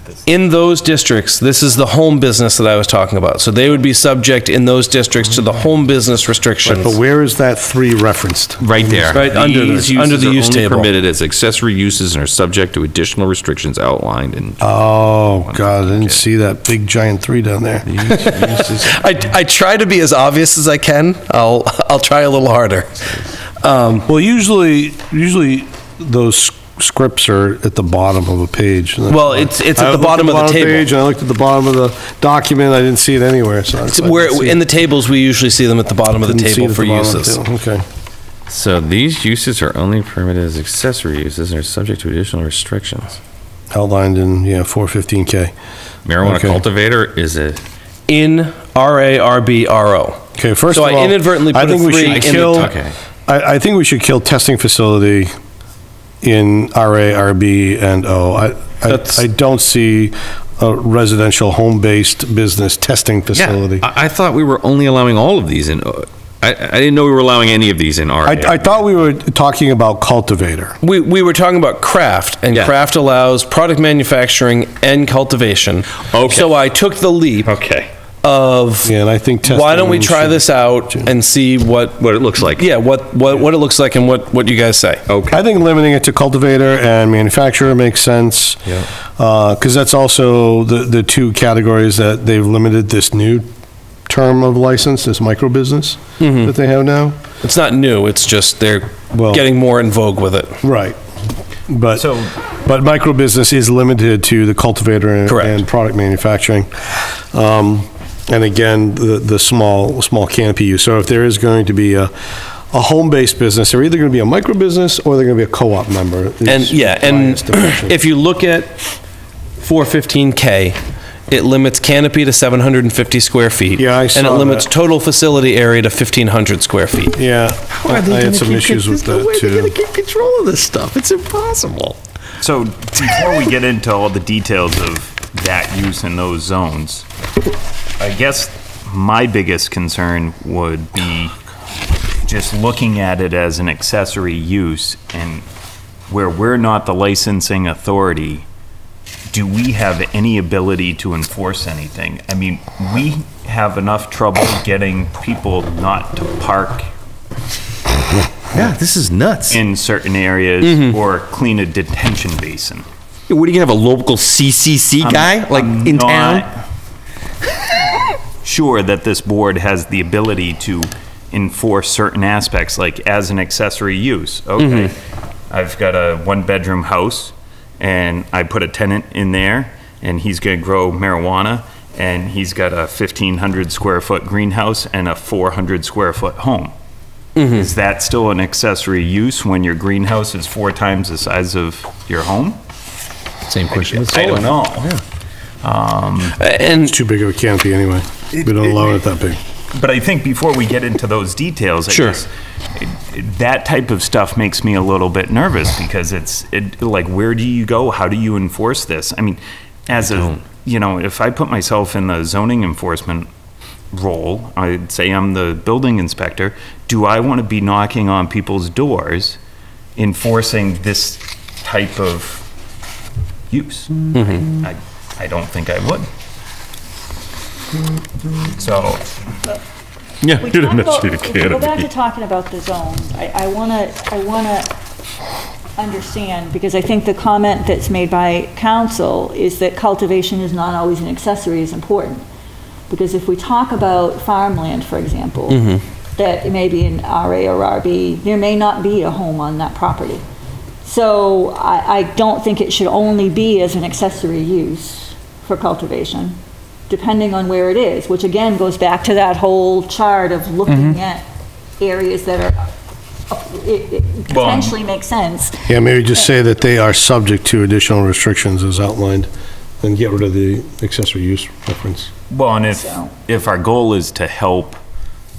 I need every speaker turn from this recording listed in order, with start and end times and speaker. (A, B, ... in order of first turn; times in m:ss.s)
0:00.3-0:07.0 A
0:06.6-0:09.6 B
0:08.6-0:16.2 C
0:09.1-0:10.9 A
0:14.6-0:17.9 B
0:17.9-0:18.9 C
0:18.1-0:24.1 A
0:24.1-0:34.6 B
0:29.1-0:30.9 A
0:33.9-0:37.4 A
0:36.2-0:37.8 B
0:38.5-0:43.2 C
0:43.7-0:45.5 B
0:46.1-0:47.6 C
0:46.2-0:46.6 B
0:48.1-0:50.2 A
0:50.4-0:52.8 B
0:50.7-0:52.7 A
0:52.1-0:53.0 C
0:53.3-0:55.3 B
0:56.2-1:03.8 B
0:58.9-0:59.2 A
1:03.4-1:08.7 C
1:08.2-1:10.8 B
1:10.8-1:17.5 A
1:12.5-1:12.8 C
1:16.1-1:16.6 C
1:17.4-1:17.9 C
1:18.2-1:18.9 A
1:18.8-1:21.1 B
1:19.4-1:25.0 A
1:22.0-1:22.7 C
1:25.1-1:25.4 C
1:25.3-1:33.5 B
1:34.1-1:37.2 B
1:36.2-1:36.5 A
1:37.4-1:40.5 A
1:39.1-1:39.5 B
1:40.6-1:41.0 B
1:41.7-1:42.1 B
1:42.0-1:42.3 D
1:42.6-1:52.1 B
1:45.3-1:45.6 A
1:52.7-1:58.0 B
1:56.4-1:58.8 A
1:59.6-2:00.8 A
2:01.3-2:07.2 A
2:03.8-2:04.7 B
2:07.2-2:09.8 B
2:07.8-2:12.0 A
2:12.4-2:17.1 D
2:18.0-2:21.4 D
2:22.2-2:25.4 D
2:26.1-2:28.5 D
2:29.3-2:36.9 D
2:38.5-2:39.6 C
2:39.5-2:42.9 D
2:43.3-2:46.5 C
2:45.0-2:46.6 D
2:48.4-2:55.0 D
2:54.6-2:54.9 A
2:55.5-3:06.7 D
3:07.4-3:12.6 D
3:13.5-3:14.4 A
3:13.9-3:14.9 D
3:15.6-3:16.4 D
3:16.4-3:17.0 A
3:16.8-3:19.4 B
3:19.7-3:33.3 D
3:21.9-3:22.2 A
3:29.9-3:30.4 C
3:33.9-3:39.4 D
3:40.0-3:42.4 D
3:43.5-3:46.1 D
3:44.1-3:44.5 A
3:48.5-3:49.1 D
3:50.2-3:51.9 C
3:50.3-3:54.7 E
3:55.8-4:02.3 E
4:02.9-4:10.2 E
4:05.5-4:05.8 A
4:10.8-4:16.4 E
4:16.9-4:21.2 E
4:21.8-4:22.6 E
4:23.3-4:25.6 E
4:24.3-4:24.8 D
4:25.7-4:29.3 B
4:29.8-4:32.1 B
4:32.3-4:34.8 D
4:32.7-4:33.2 E